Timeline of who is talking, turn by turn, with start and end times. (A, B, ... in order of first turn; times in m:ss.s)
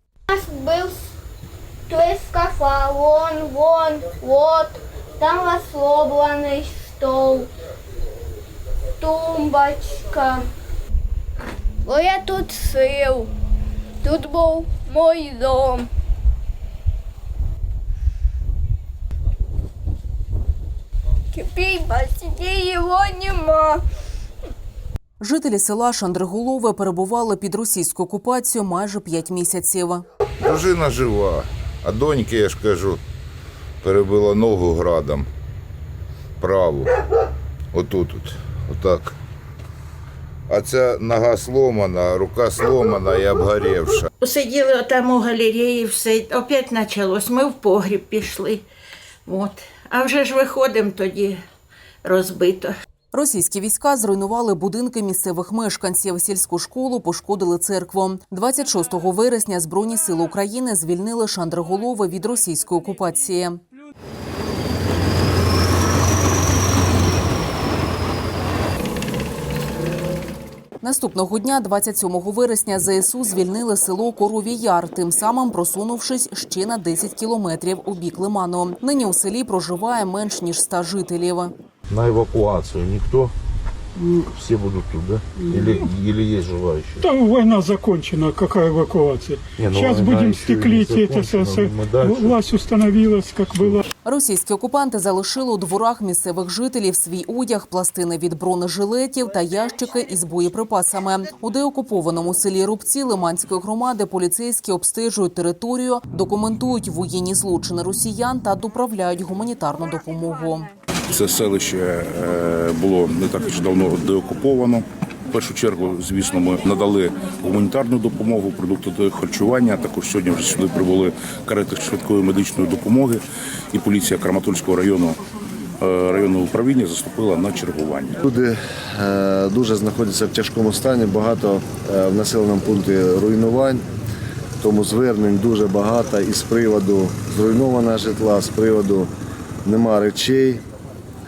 0:00.3-0:01.1 A
0:01.9-0:07.5 A
0:09.0-0:10.5 A
0:11.9-0:13.3 A
0:14.0-0:15.9 A
0:21.3-0:23.8 A
0:25.2-0:30.0 B
0:30.4-0:33.0 C
0:33.8-0:35.3 C
0:36.4-0:37.0 C
0:37.7-0:39.1 C
0:40.5-0:44.1 C
0:44.2-0:48.6 D
0:49.2-0:51.4 D
0:52.0-0:52.8 D
0:53.1-1:03.6 B
1:10.8-1:21.5 B
1:21.9-1:23.3 E
1:24.0-1:27.1 E
1:27.0-1:33.8 F
1:29.6-1:32.4 E
1:33.6-1:33.8 E
1:34.0-1:50.7 B
1:51.1-2:03.2 G
2:03.7-2:05.2 G
2:05.8-2:08.2 G
2:08.2-2:13.8 H
2:14.6-2:19.1 H
2:19.6-2:20.6 H